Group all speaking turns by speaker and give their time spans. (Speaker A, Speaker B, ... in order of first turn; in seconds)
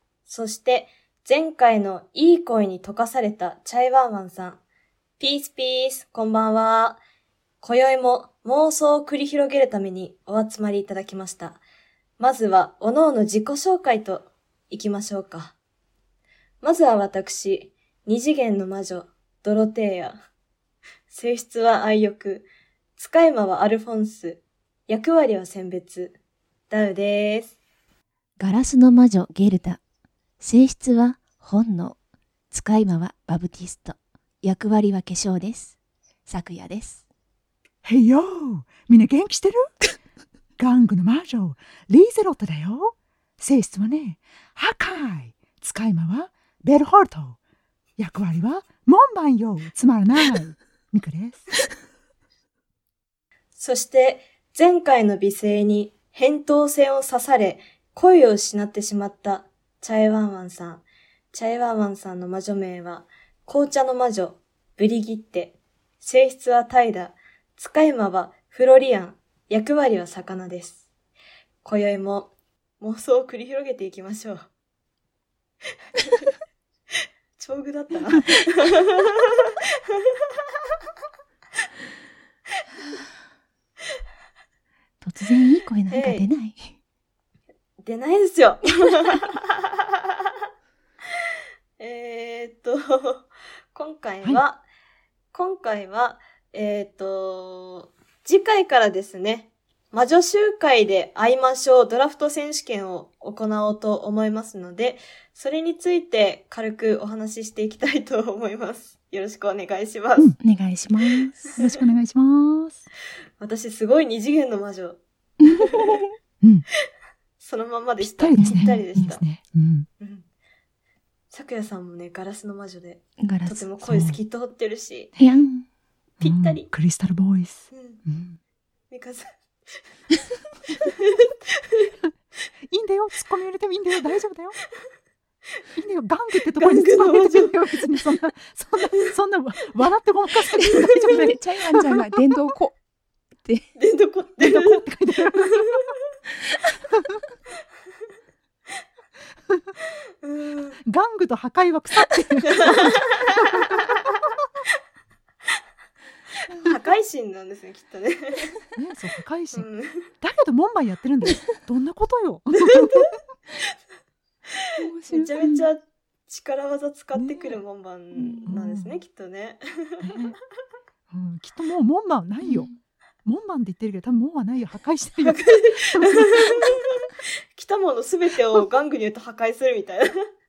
Speaker A: 0.3-4.6, 5.2-7.0, 7.6-11.6, 12.2-15.5, 16.6-20.2, 21.1-26.1, 26.7-27.5, 53.5-70.8, 71.6-74.5, 76.0-76.3, 77.4-79.4, 85.9-86.3, 87.8-89.5, 91.8-94.6, 95.3-110.3, 111.4-111.7, 113.4-115.9, 117.4-119.2, 120.0-120.2, 121.3-125.1, 126.2-126.7, 127.7-128.0, 128.9-129.3, 130.9-131.9, 136.6-137.6, 143.8-144.8, 150.2-150.8, 152.7-153.8, 156.6-158.5, 159.5-160.1, 162.6-162.9, 165.1-170.0, 175.2-180.2
Speaker B: 28.4-29.8, 30.4-31.9, 32.5-35.7, 36.2-37.0, 85.0-86.7, 110.4-111.4, 115.4-116.0, 118.4-119.1, 123.2-123.7, 125.2-125.7, 140.8-142.8, 143.4-143.7, 156.5-156.8, 164.8-165.7, 168.2-168.6, 172.4-172.8
Speaker C: 37.8-39.8, 40.6-47.4, 48.0-51.5, 111.5-112.8, 116.4-116.7, 118.0-119.9, 123.8-124.2, 126.2-128.4, 132.7-134.6, 135.8-141.4, 144.4-145.8, 150.8-153.9, 158.8-163.1, 167.1-167.6, 168.4-169.0, 170.0-170.4, 171.1-172.7, 173.2-176.4